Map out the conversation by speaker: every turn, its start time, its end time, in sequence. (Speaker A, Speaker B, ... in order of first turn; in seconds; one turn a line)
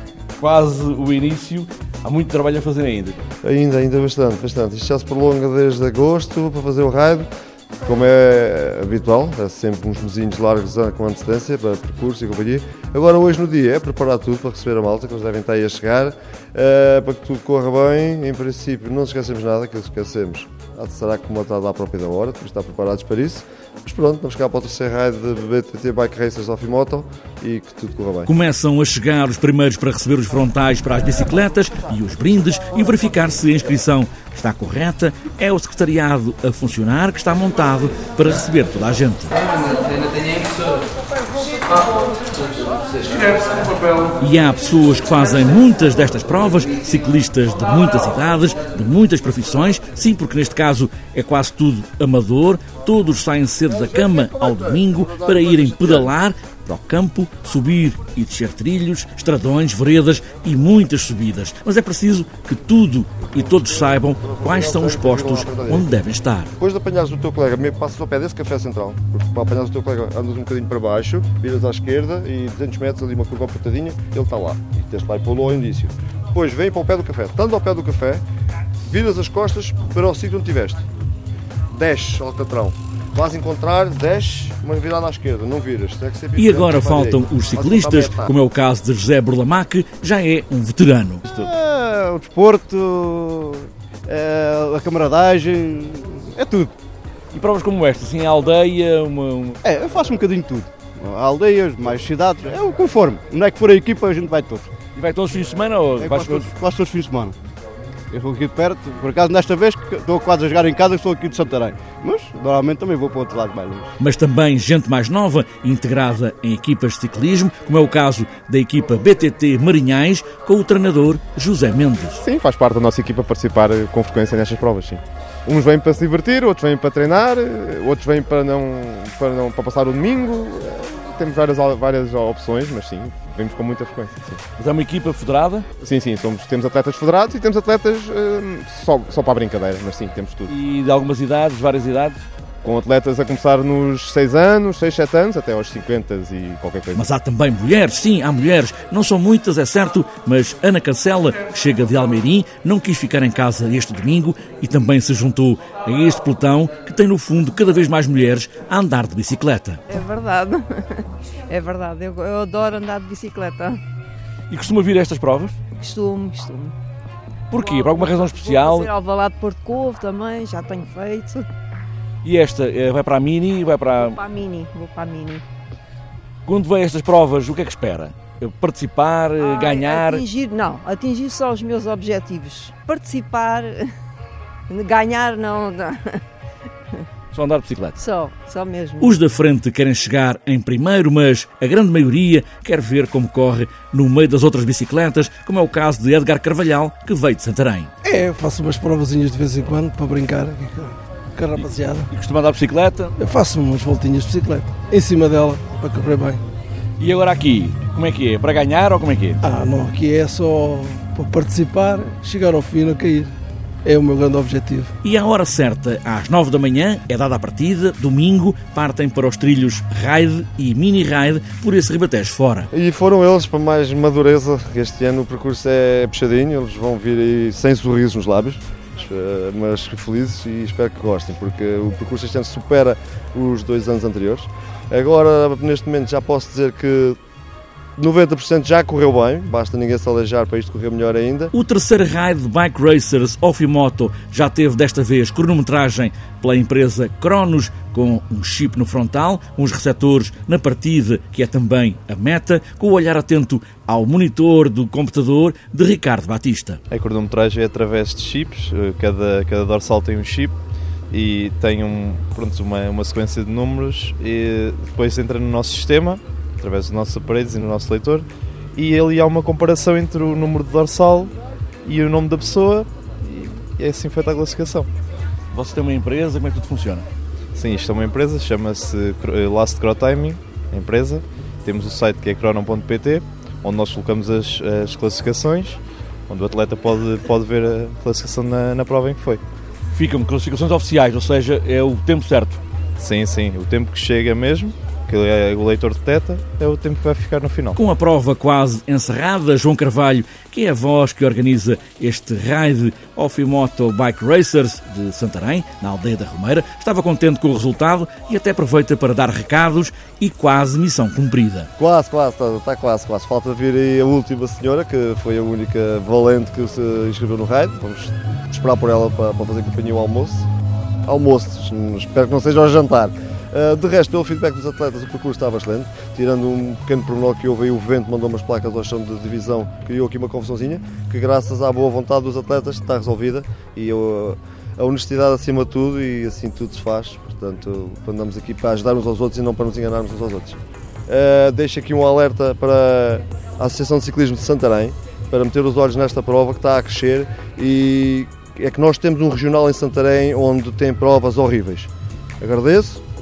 Speaker A: 0.4-3.2
Speaker B: 3.4-7.3
Speaker B: 7.8-28.3
Speaker A: 28.3-39.3
Speaker A: 44.2-66.5
Speaker B: 53.7-56.1
Speaker B: 63.5-65.9
Speaker B: 66.6-78.2
Speaker B: 78.9-80.8
Speaker B: 81.7-88.3
Speaker A: 86.4-91.3
Speaker C: 91.3-96.8
Speaker A: 97.3-99.6
Speaker C: 99.6-104.7
Speaker A: 105.0-106.5
Speaker C: 106.0-107.4
Speaker C: 108.1-113.9
Speaker A: 114.0-122.2
Speaker D: 122.2-134.4
Speaker A: 134.6-135.7
Speaker D: 135.8-140.5
Speaker A: 140.5-142.2
Speaker D: 142.6-147.1
Speaker A: 146.9-159.8
Speaker E: 159.9-163.8
Speaker A: 164.5-165.6
Speaker E: 165.7-166.8
Speaker A: 167.5-168.9
Speaker E: 167.6-171.5
Speaker A: 172.2-174.2
Speaker E: 174.0-175.4
Speaker A: 176.5-180.2
Speaker E: 179.4-183.9
Speaker E: 184.7-186.2
Speaker A: 187.3-188.0
Speaker E: 188.0-189.2
Speaker A: 189.0-197.9
Speaker F: 198.0-202.1
Speaker A: 202.1-203.1
Speaker F: 203.2-206.4
Speaker A: 207.0-209.4
Speaker F: 209.4-213.3
Speaker F: 213.8-214.9
Speaker A: 215.0-222.7
Speaker B: 222.7-237.2
Speaker B: 238.0-241.5
Speaker A: 241.5-256.8
Speaker G: 256.9-260.6
Speaker G: 261.1-271.3
Speaker G: 271.9-274.9
Speaker A: 275.5-277.1
Speaker G: 277.6-289.4
Speaker A: 289.9-292.6
Speaker G: 293.0-297.8
Speaker A: 297.8-311.7
Speaker B: 311.8-320.5
Speaker B: 321.1-351.9
Speaker B: 352.4-353.0